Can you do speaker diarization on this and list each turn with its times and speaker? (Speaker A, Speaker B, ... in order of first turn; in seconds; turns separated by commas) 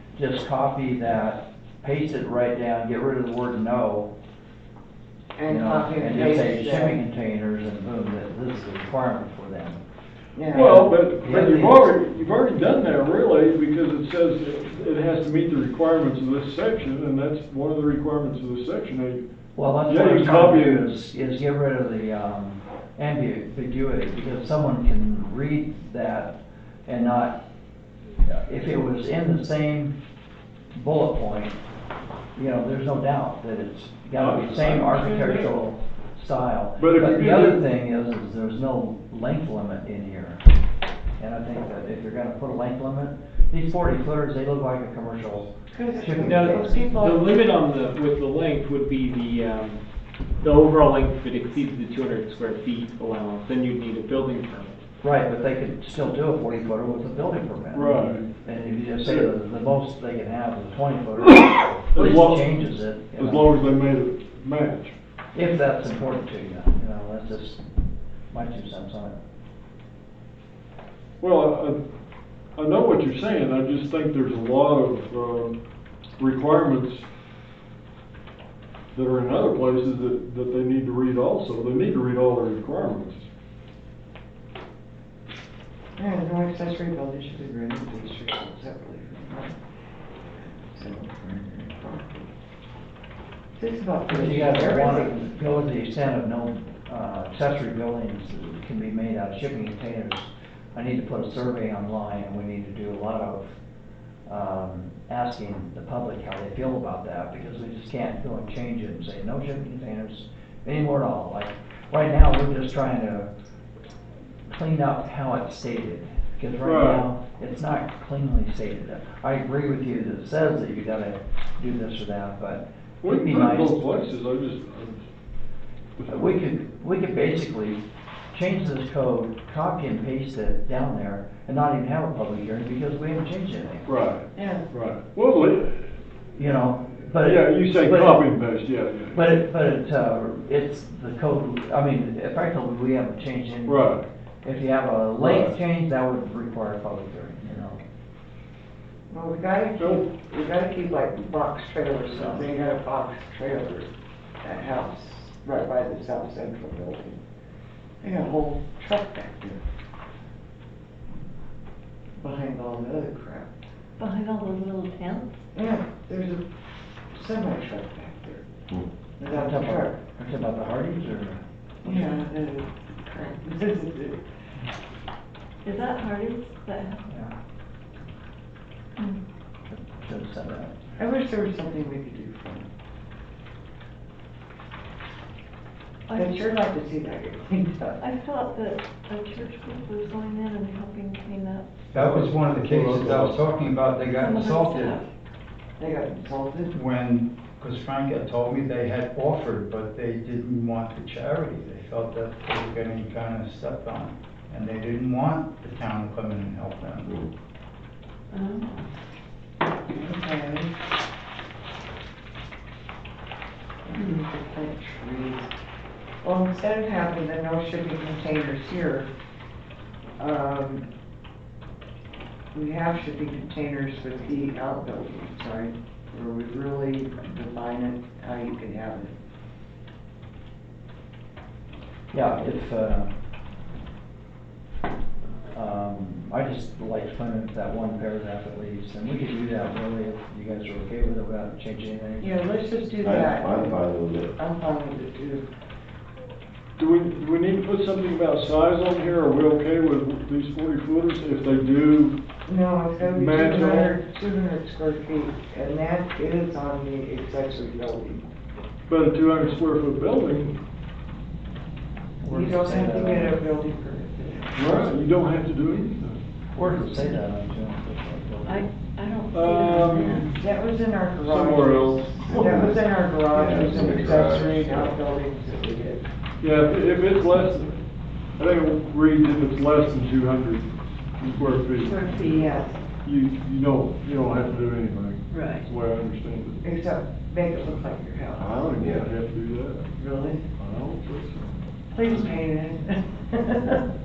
Speaker A: 0.1-4.1, Speaker B: 5.4-7.0, Speaker A: 5.5-9.8, Speaker B: 10.3-10.8, Speaker C: 10.5-19.2, Speaker A: 10.8-11.9, Speaker A: 19.6-27.4, Speaker C: 19.9-20.9, Speaker A: 28.3-29.9, Speaker A: 30.7-31.6, Speaker A: 32.4-40.4, Speaker C: 34.1-35.5, Speaker C: 36.8-37.6, Speaker A: 41.2-46.8, Speaker B: 45.7-47.4, Speaker D: 46.2-49.8, Speaker D: 50.4-54.7, Speaker A: 55.0-63.5, Speaker C: 57.7-58.3, Speaker C: 59.0-59.3, Speaker C: 61.5-65.0, Speaker A: 65.3-67.6, Speaker A: 68.3-69.2, Speaker C: 71.2-71.8, Speaker C: 72.6-75.5, Speaker C: 76.2-77.0, Speaker C: 78.9-83.2, Speaker B: 86.0-89.5, Speaker B: 90.4-92.3, Speaker B: 93.6-95.2, Speaker A: 94.1-103.6, Speaker A: 104.3-113.3, Speaker A: 114.5-123.8, Speaker C: 116.6-117.1, Speaker C: 123.0-125.1, Speaker C: 126.0-126.3, Speaker A: 126.1-133.9, Speaker C: 133.9-136.0, Speaker B: 134.3-134.7, Speaker A: 136.4-138.2, Speaker C: 137.2-139.3, Speaker A: 139.1-147.8, Speaker C: 143.7-144.1, Speaker C: 145.2-145.6, Speaker B: 149.1-153.9, Speaker C: 149.8-150.1, Speaker A: 152.1-152.4, Speaker B: 154.4-157.2, Speaker B: 158.0-159.6, Speaker B: 162.2-163.5, Speaker E: 164.0-165.4, Speaker B: 165.6-166.4, Speaker B: 167.1-168.4, Speaker B: 169.2-170.0, Speaker A: 169.3-171.4, Speaker B: 171.8-174.2, Speaker E: 175.6-177.0, Speaker A: 179.7-180.7, Speaker B: 181.0-182.7, Speaker E: 186.1-186.4, Speaker B: 186.1-188.0, Speaker E: 188.0-191.7, Speaker F: 191.9-195.0, Speaker C: 192.7-193.3, Speaker E: 194.1-195.0, Speaker B: 195.8-196.7, Speaker F: 196.7-207.2, Speaker E: 208.3-208.8, Speaker B: 209.9-210.7, Speaker B: 213.9-215.5, Speaker B: 216.2-219.1, Speaker B: 220.2-220.8, Speaker B: 222.5-229.1, Speaker A: 232.1-233.1, Speaker A: 235.5-242.3, Speaker B: 242.2-243.8, Speaker G: 243.0-244.3, Speaker B: 244.3-245.4, Speaker C: 246.8-252.2, Speaker B: 252.5-258.2, Speaker C: 253.0-254.0, Speaker C: 258.9-260.6, Speaker A: 262.2-263.4, Speaker B: 262.3-264.7, Speaker C: 264.5-266.2, Speaker A: 266.6-268.7, Speaker E: 268.4-270.3, Speaker C: 269.3-270.3, Speaker B: 269.9-276.1, Speaker C: 271.2-272.2, Speaker G: 272.3-275.0, Speaker C: 276.4-282.1, Speaker B: 281.8-282.8, Speaker E: 282.0-282.5, Speaker C: 283.0-286.6, Speaker E: 285.3-285.7, Speaker B: 286.6-288.6, Speaker G: 288.4-289.1, Speaker C: 288.5-289.9, Speaker B: 290.0-290.4, Speaker C: 290.6-291.5, Speaker B: 291.9-293.8